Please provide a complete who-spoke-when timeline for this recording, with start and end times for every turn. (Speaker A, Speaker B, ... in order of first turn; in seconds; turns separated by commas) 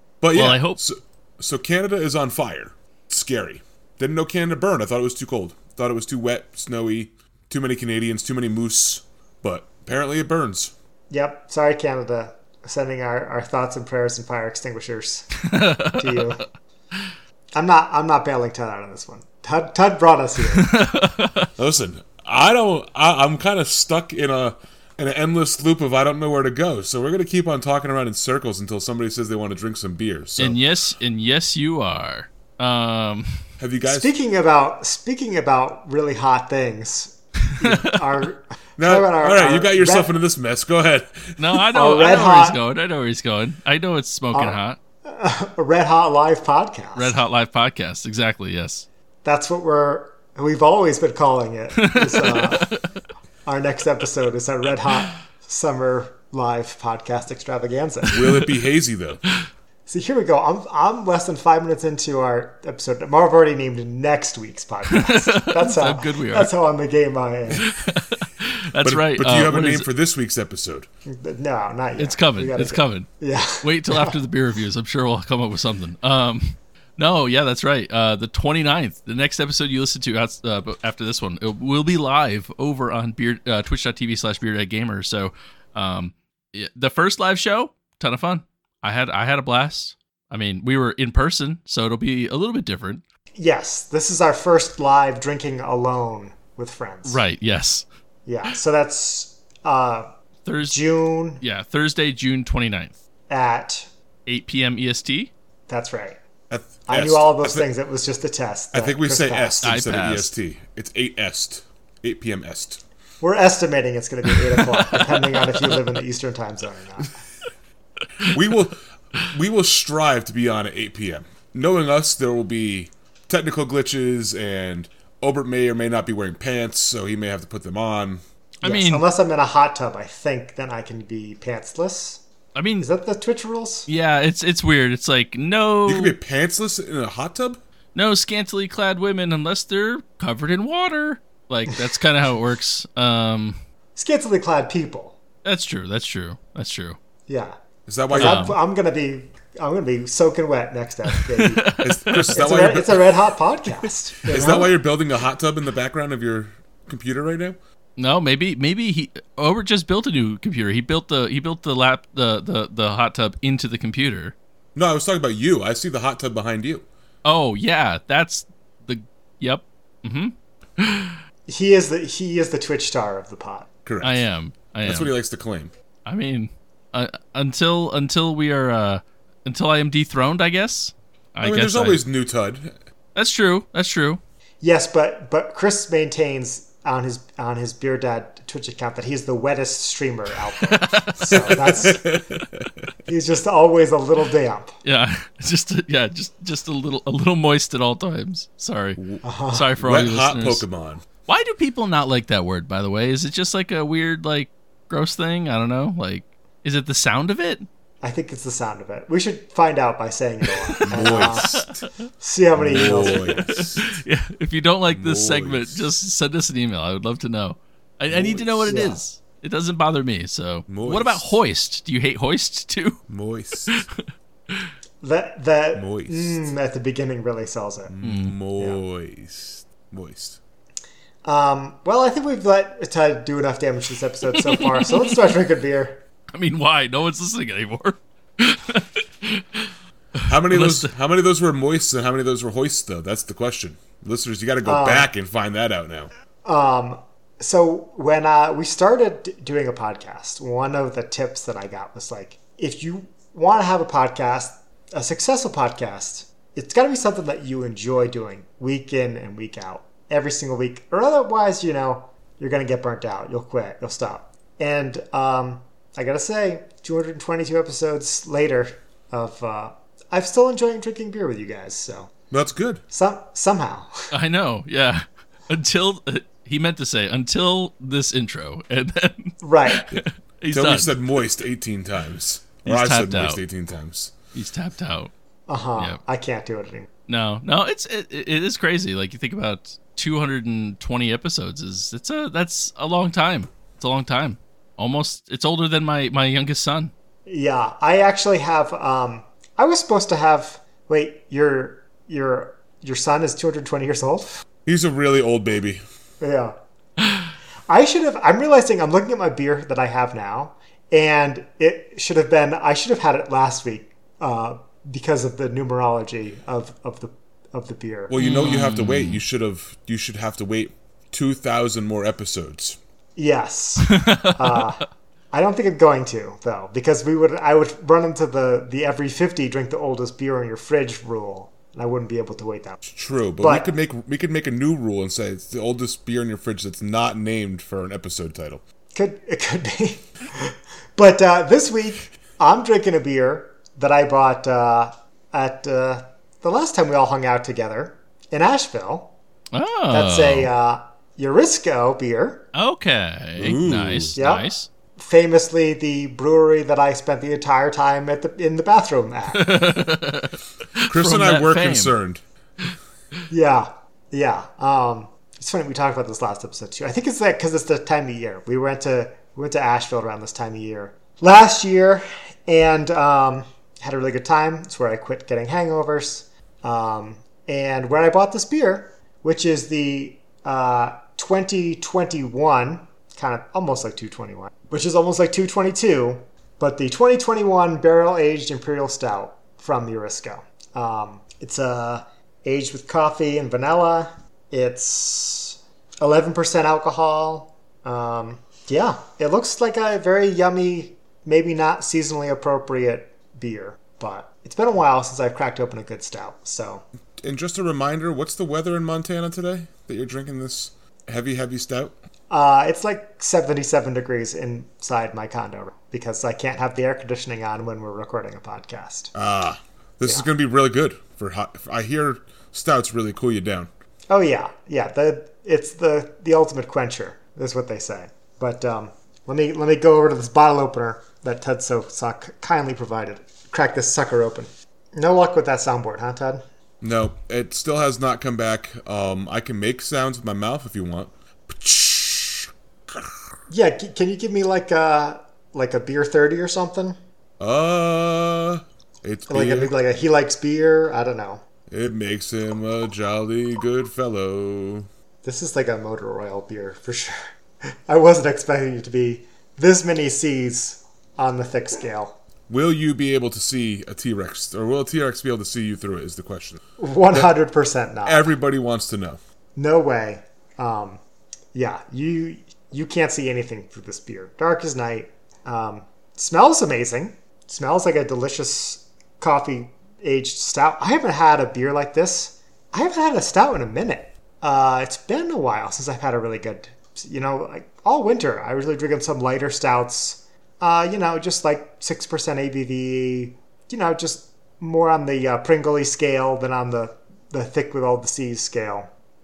Speaker A: 0.2-10.7, Speaker B: 0.3-0.8, Speaker C: 11.1-16.5, Speaker B: 15.5-16.2, Speaker C: 17.6-20.7, Speaker B: 20.6-21.5, Speaker A: 21.6-30.6, Speaker B: 30.4-33.5, Speaker A: 33.6-34.1, Speaker C: 33.9-40.1, Speaker B: 37.5-38.0, Speaker A: 38.8-41.4, Speaker B: 41.4-44.8, Speaker C: 41.7-42.6, Speaker C: 44.3-47.2, Speaker B: 47.0-48.9, Speaker C: 49.2-52.7, Speaker B: 51.8-53.0, Speaker C: 53.5-58.3, Speaker A: 58.1-59.2, Speaker C: 59.9-67.7, Speaker B: 64.9-66.5, Speaker B: 67.6-69.9, Speaker A: 68.8-70.9, Speaker C: 71.1-74.2, Speaker B: 72.0-93.0, Speaker C: 93.3-97.2, Speaker B: 97.0-97.9, Speaker C: 98.3-100.1, Speaker B: 100.5-100.8, Speaker C: 100.7-101.4, Speaker B: 101.4-103.0, Speaker C: 103.3-103.9, Speaker B: 104.3-105.3, Speaker C: 105.7-106.2, Speaker A: 106.5-107.7, Speaker C: 106.9-109.8, Speaker A: 108.7-112.8, Speaker B: 109.6-110.3, Speaker C: 113.2-117.2, Speaker B: 114.5-115.8, Speaker A: 118.3-128.2, Speaker B: 128.6-129.0, Speaker C: 128.6-132.2, Speaker B: 132.6-132.9, Speaker C: 132.8-133.9, Speaker B: 133.9-136.2, Speaker A: 135.9-137.6, Speaker B: 137.9-143.6, Speaker C: 144.0-145.2, Speaker B: 145.4-147.0, Speaker C: 147.3-147.6, Speaker A: 147.9-148.5, Speaker C: 148.1-151.8, Speaker B: 148.2-148.6, Speaker B: 151.1-152.3, Speaker A: 151.8-153.1, Speaker C: 152.3-154.8, Speaker A: 154.3-157.6, Speaker B: 158.0-164.3, Speaker A: 164.8-166.9, Speaker B: 167.2-171.2, Speaker C: 171.5-173.7, Speaker A: 173.9-174.2, Speaker B: 174.0-175.1, Speaker A: 174.8-175.7, Speaker B: 176.1-182.0, Speaker A: 181.4-182.8, Speaker B: 183.2-184.2, Speaker C: 184.6-192.1, Speaker B: 190.7-191.5, Speaker A: 191.3-192.7, Speaker C: 193.1-194.8, Speaker B: 194.8-200.7, Speaker A: 199.0-199.2, Speaker C: 199.2-199.7, Speaker A: 199.8-201.1, Speaker B: 201.3-207.7, Speaker C: 208.0-211.6, Speaker B: 210.5-211.8, Speaker A: 210.9-211.9, Speaker C: 212.2-213.4, Speaker A: 212.6-213.9, Speaker B: 212.7-223.9, Speaker A: 214.9-215.9, Speaker A: 218.1-218.7, Speaker C: 218.7-219.0, Speaker A: 220.7-221.2, Speaker A: 223.1-223.8, Speaker C: 225.0-227.9, Speaker A: 225.8-226.4, Speaker A: 227.9-230.4, Speaker B: 228.0-228.3, Speaker C: 231.2-236.0, Speaker B: 234.4-235.1, Speaker B: 236.3-239.7, Speaker A: 240.3-246.1, Speaker B: 240.5-240.9, Speaker C: 244.7-245.1, Speaker C: 246.4-272.1, Speaker A: 272.3-272.8, Speaker C: 272.9-274.1, Speaker B: 274.1-280.9, Speaker C: 279.4-279.9, Speaker A: 279.9-284.1, Speaker B: 282.6-283.4, Speaker B: 284.3-285.1, Speaker C: 285.5-286.9, Speaker B: 287.1-296.9, Speaker C: 297.3-304.4, Speaker A: 304.7-305.8, Speaker C: 306.2-306.6, Speaker C: 307.7-318.2, Speaker A: 318.1-322.8, Speaker B: 318.2-319.2, Speaker C: 323.2-332.8, Speaker B: 323.9-324.6, Speaker A: 332.9-338.6, Speaker C: 333.4-333.7, Speaker C: 338.9-349.1, Speaker B: 349.5-350.5, Speaker C: 349.9-352.5, Speaker B: 352.5-354.7, Speaker A: 353.4-354.2, Speaker C: 354.2-359.7, Speaker B: 359.3-361.9, Speaker A: 360.9-362.7, Speaker C: 363.3-406.9, Speaker A: 407.2-411.9, Speaker C: 412.3-419.1, Speaker A: 419.1-423.7, Speaker C: 420.0-420.3, Speaker C: 424.1-436.4, Speaker A: 436.8-443.1, Speaker C: 443.5-447.0, Speaker A: 447.4-449.7, Speaker C: 449.3-451.4, Speaker A: 451.7-454.9, Speaker C: 455.2-457.2, Speaker C: 457.9-462.2, Speaker A: 462.5-466.6, Speaker C: 466.8-468.4, Speaker A: 468.1-469.2, Speaker C: 469.6-471.0, Speaker C: 471.5-498.9